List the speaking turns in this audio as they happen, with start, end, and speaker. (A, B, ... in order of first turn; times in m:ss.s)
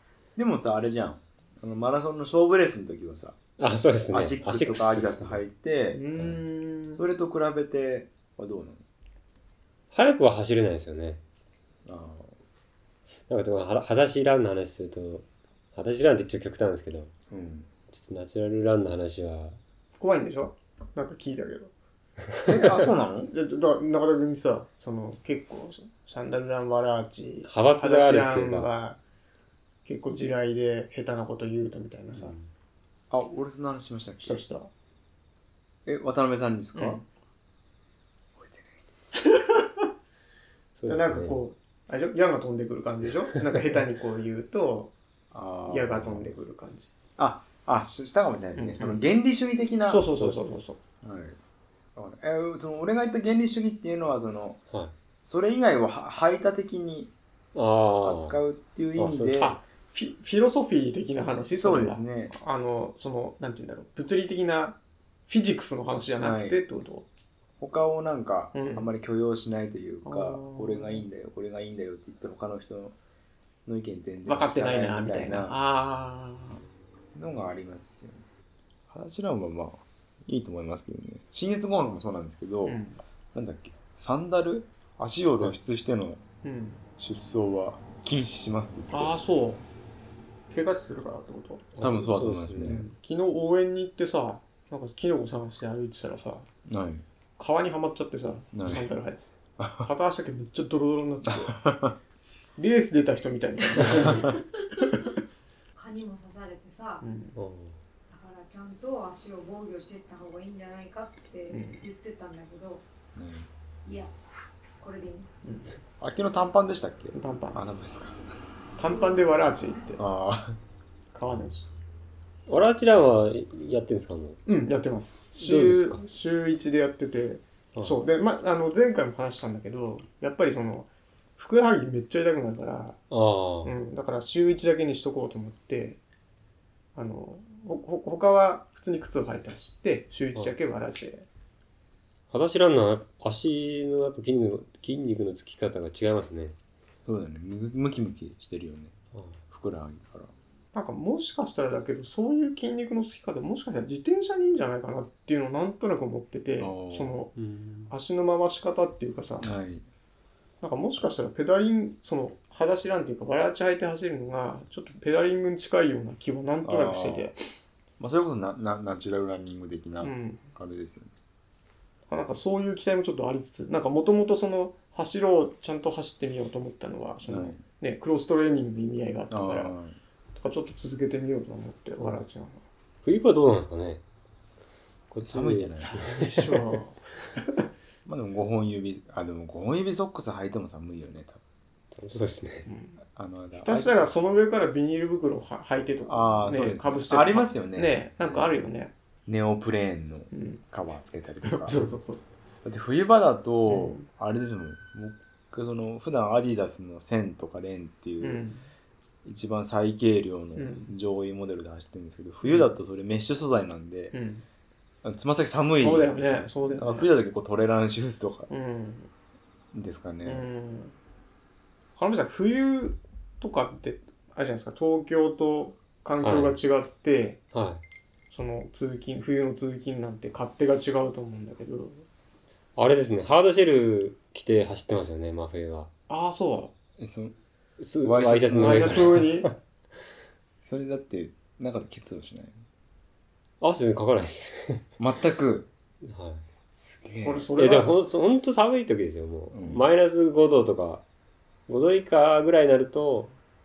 0:00.4-0:03.4 A
0:03.6-0:05.4 B
0:04.1-0:06.0 A
0:05.9-0:07.0 C
0:06.9-0:08.8 A
0:09.9-0:11.2 B
0:11.8-0:12.3 A
0:13.3-0:17.1 B
0:17.3-0:17.7 A
0:17.9-0:19.6 B
0:20.0-0:21.7 C
0:22.4-0:23.3 A
0:23.3-0:29.0 C
0:27.4-0:28.7 B
0:29.8-0:32.3 C
0:32.1-0:32.5 B
0:33.1-0:34.4 A
0:34.2-0:34.7 C
0:35.8-0:37.0 A
0:36.8-0:37.0 C
0:38.4-0:39.1 A
0:39.2-0:39.8 C
0:40.8-0:41.4 B
0:40.9-0:44.9 C
0:45.3-0:46.3 A
0:45.6-0:46.9 C
0:47.2-0:50.2 A
0:48.6-0:49.0 C
0:49.9-0:50.8 C
0:50.1-0:50.5 B
0:51.0-0:51.4 A
0:51.9-0:54.6 A
0:55.2-0:57.1 A
0:57.5-0:58.4 B
0:58.0-0:59.6 A
0:59.0-0:59.6 B
0:59.4-1:07.0 C
1:01.6-1:02.3 A
1:06.2-1:06.6 A
1:07.6-1:12.9 A
1:08.5-1:08.9 C
1:10.0-1:11.0 C
1:13.6-1:15.6 A
1:14.2-1:16.6 C
1:17.1-1:18.2 A
1:18.9-1:22.8 A
1:22.6-1:23.0 C
1:23.3-1:26.2 A
1:26.4-1:26.8 C
1:27.0-1:29.1 A
1:28.9-1:29.6 C
1:30.5-1:31.6 C
1:31.7-1:32.8 B
1:31.8-1:32.8 A
1:32.6-1:36.5 C
1:36.6-1:37.0 A
1:37.4-1:41.6 C
1:38.5-1:38.9 A
1:39.6-1:39.9 A
1:41.2-1:42.0 A
1:42.6-1:45.1 C
1:45.7-1:47.0 D
1:47.0-1:47.4 C
1:47.4-1:47.8 B
1:48.1-1:52.8 D
1:51.5-1:51.8 C
1:53.1-1:53.5 A
1:53.8-1:54.1 D
1:54.8-1:55.6 D
1:55.4-1:55.8 C
1:56.0-1:58.2 A
1:57.1-1:57.6 C
1:58.8-2:00.0 C
2:00.0-2:00.6 A
2:01.1-2:01.7 C
2:02.5-2:04.4 B
2:04.4-2:13.0 C
2:05.4-2:06.0 B
2:07.7-2:08.0 B
2:13.1-2:13.7 B
2:13.6-2:16.0 C
2:16.9-2:21.2 C
2:22.3-2:26.6 B
2:27.0-2:28.9 A
2:29.1-2:29.4 B
2:29.5-2:30.3 A
2:30.7-2:37.3 C
2:36.6-2:37.2 A
2:37.4-2:37.9 B
2:37.9-2:39.5 C
2:39.4-2:39.8 A
2:40.6-2:47.4 C
2:46.6-2:47.3 A
2:48.0-2:51.1 A
2:50.0-2:50.4 C
2:52.1-2:59.7 C
2:57.2-2:57.6 A
2:59.3-3:00.0 A
3:00.3-3:02.6 C
3:03.0-3:04.0 B
3:05.1-3:06.6 B
3:05.2-3:06.0 A
3:05.8-3:07.6 C
3:08.0-3:11.4 A
3:11.9-3:12.7 B
3:12.7-3:13.0 C
3:13.1-3:14.1 A
3:13.6-3:18.9 C
3:16.1-3:17.9 A
3:19.2-3:21.8 A
3:20.3-3:20.6 C
3:21.4-3:22.2 C
3:22.6-3:28.4 A
3:23.7-3:24.1 C
3:28.2-3:28.6 C
3:29.2-3:34.1 A
3:30.6-3:30.9 C
3:32.4-3:32.7 C
3:34.1-3:34.4 C
3:35.0-3:38.5 A
3:35.7-3:37.1 C
3:38.5-3:39.1 C
3:39.7-3:40.4 A
3:40.2-3:40.9 C
3:42.0-3:47.4 C
3:46.2-3:46.6 B
3:47.5-3:47.8 B
3:48.3-3:52.0 C
3:52.8-3:55.9 B
3:56.1-3:56.7 C
3:57.0-3:57.3 A
3:57.8-3:59.5 B
3:58.0-3:59.2 A
3:58.6-3:59.5 C
4:00.6-4:02.6 A
4:03.6-4:04.8 B
4:05.0-4:05.7 A
4:06.0-4:06.4 B
4:06.7-4:07.5 A
4:07.1-4:07.9 C
4:07.6-4:11.0 B
4:09.5-4:09.8 A
4:11.7-4:13.3 B